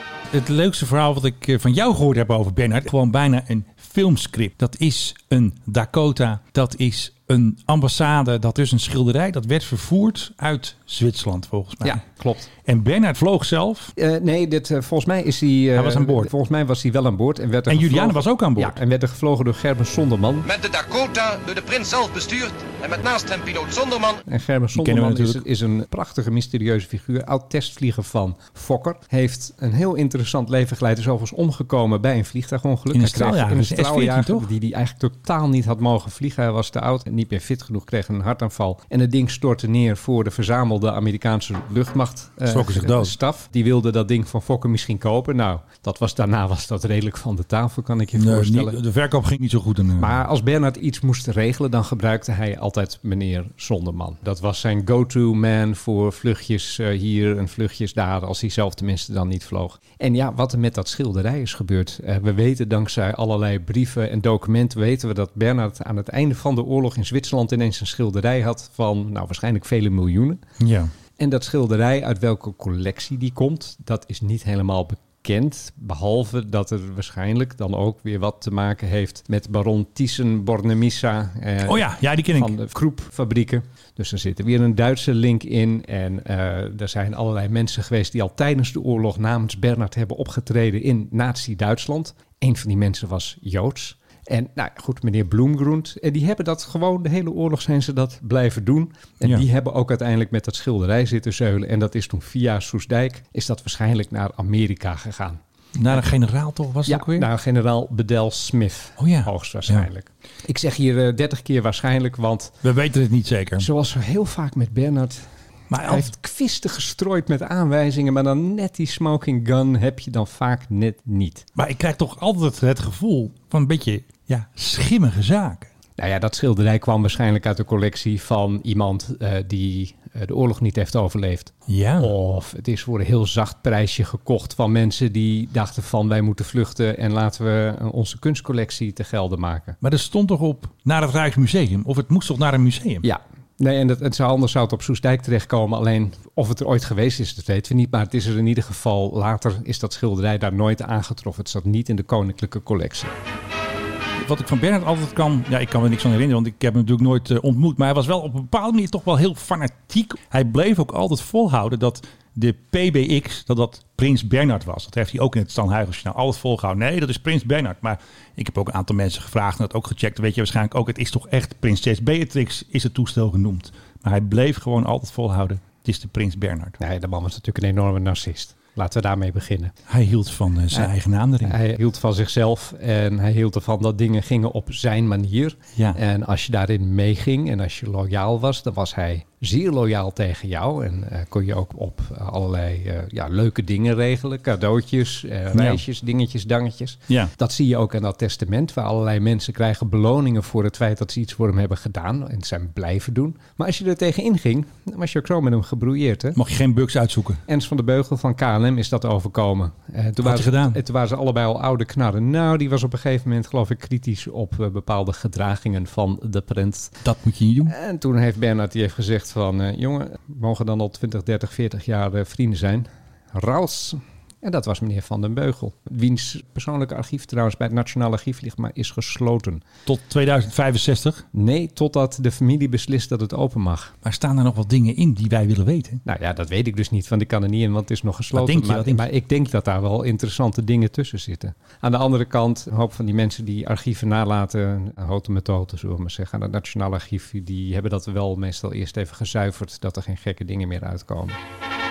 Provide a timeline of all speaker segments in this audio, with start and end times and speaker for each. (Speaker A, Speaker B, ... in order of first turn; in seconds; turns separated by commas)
Speaker A: 0.3-12.0, Speaker B: 11.8-12.5, Speaker A: 12.7-13.9, Speaker B: 14.0-20.5, Speaker A: 15.8-16.3, Speaker A: 17.7-18.8, Speaker C: 20.4-24.2, Speaker B: 24.3-48.8, Speaker A: 24.8-25.4, Speaker A: 32.9-34.5, Speaker A: 42.5-43.1, Speaker A: 48.1-50.1, Speaker B: 50.0-70.4, Speaker A: 70.6-70.9, Speaker B: 71.2-106.1, Speaker A: 81.7-82.5, Speaker A: 105.8-107.3, Speaker B: 106.9-112.6, Speaker A: 109.0-109.9, Speaker A: 112.6-113.7, Speaker B: 113.6-121.5, Speaker A: 115.7-116.1, Speaker A: 121.6-125.7, Speaker B: 126.0-139.8, Speaker A: 131.7-132.1, Speaker A: 139.8-143.1, Speaker B: 143.0-153.1, Speaker A: 154.2-176.8, Speaker B: 176.8-179.8, Speaker A: 179.9-181.6, Speaker B: 181.4-206.4, Speaker A: 195.5-195.8, Speaker A: 206.3-207.4, Speaker B: 207.5-217.0, Speaker A: 210.2-210.8, Speaker A: 217.0-217.7, Speaker B: 217.7-229.6, Speaker A: 229.9-231.2, Speaker B: 231.3-233.9, Speaker A: 234.0-236.0, Speaker B: 236.1-251.4, Speaker A: 238.3-239.1